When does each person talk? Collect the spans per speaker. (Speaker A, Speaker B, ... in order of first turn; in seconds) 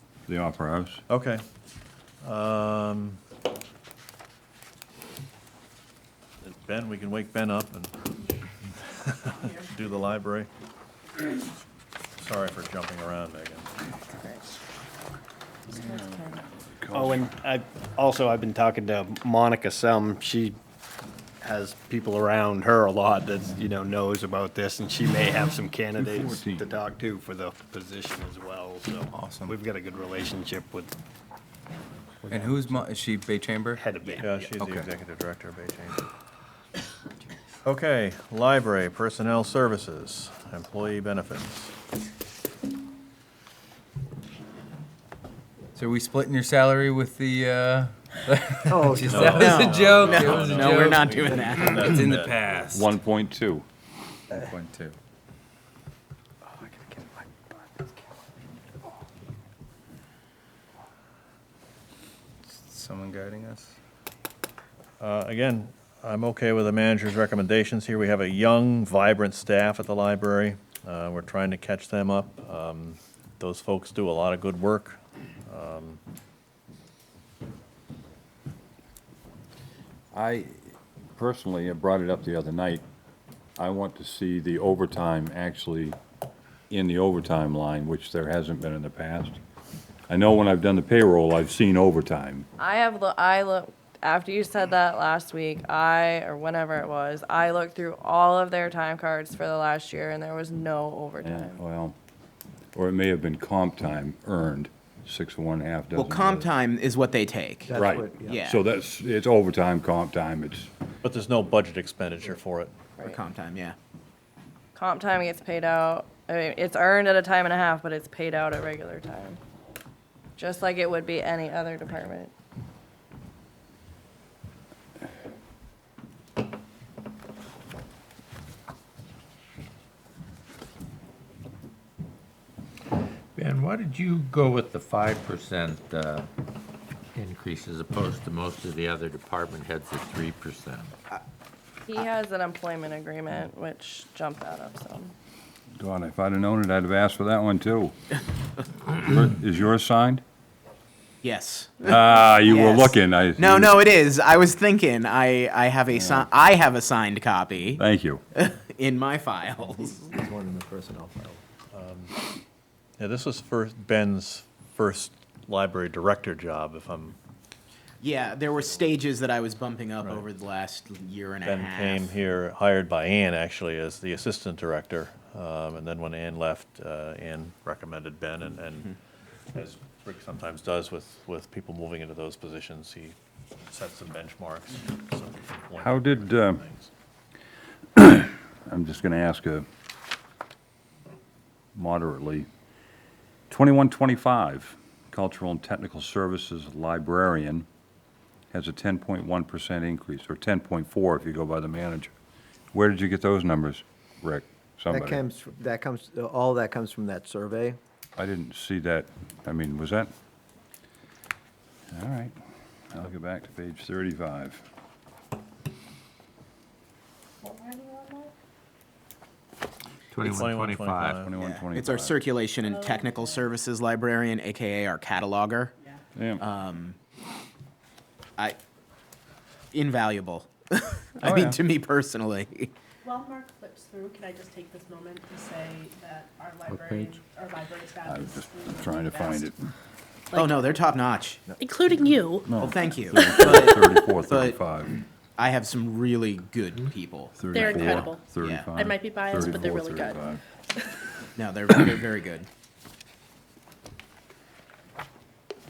Speaker A: 0.2-1.0, 16.8-17.3, 25.9-26.7, 52.7-53.6, 80.1-82.8, 83.6-86.0, 86.7-89.4, 90.1-92.5, 101.2-102.0, 102.7-106.5, 107.7-110.7, 145.8-147.9, 148.9-150.2, 151.8-153.8, 155.9-156.3, 157.8-158.2, 185.8-186.6, 187.9-189.7, 191.7-192.5, 193.5-197.7, 198.5-202.1, 202.7-205.2, 208.2-210.1, 211.9-212.3, 212.9-214.6, 221.2-222.3, 226.1-226.4, 231.2-231.6, 238.0-239.6, 242.5-244.9, 247.3-250.4
Speaker B: 1.1-1.4, 2.2-3.2, 6.4-8.1, 8.9-10.5, 12.2-13.7, 34.2-36.0, 37.6-41.7, 49.0-52.5, 65.0-76.0, 111.0-112.7, 161.7-162.1, 163.0-167.2, 170.0-170.3, 171.4-179.0, 179.5-183.2, 183.7-186.9, 220.2-221.3
Speaker C: 15.7-16.4, 92.6-101.6, 114.7-119.4, 120.4-122.3, 141.9-145.1
Speaker D: 16.9-20.6, 21.4-30.9, 33.7-34.5
Speaker E: 29.1-29.5, 32.3-33.9, 34.5-34.9, 45.7-52.9, 54.3-54.9, 56.8-57.1, 62.5-63.7
Speaker F: 48.7-50.0, 107.7-108.4, 160.1-161.4, 204.9-207.8
Speaker G: 49.3-52.0, 105.9-108.6, 113.0-113.8, 151.2-151.9, 152.4-157.8, 158.3-160.1, 168.0-172.1, 221.4-225.7, 226.4-227.0, 229.7-232.7, 240.3-241.4, 242.6-244.6, 245.4-248.7, 251.3-252.5
Speaker H: 133.3-136.3, 137.1-140.9, 220.1-221.2, 236.7-237.2
Speaker I: 217.4-218.3, 222.6-223.5, 233.0-239.5, 240.3-240.8, 241.6-242.5, 247.5-250.3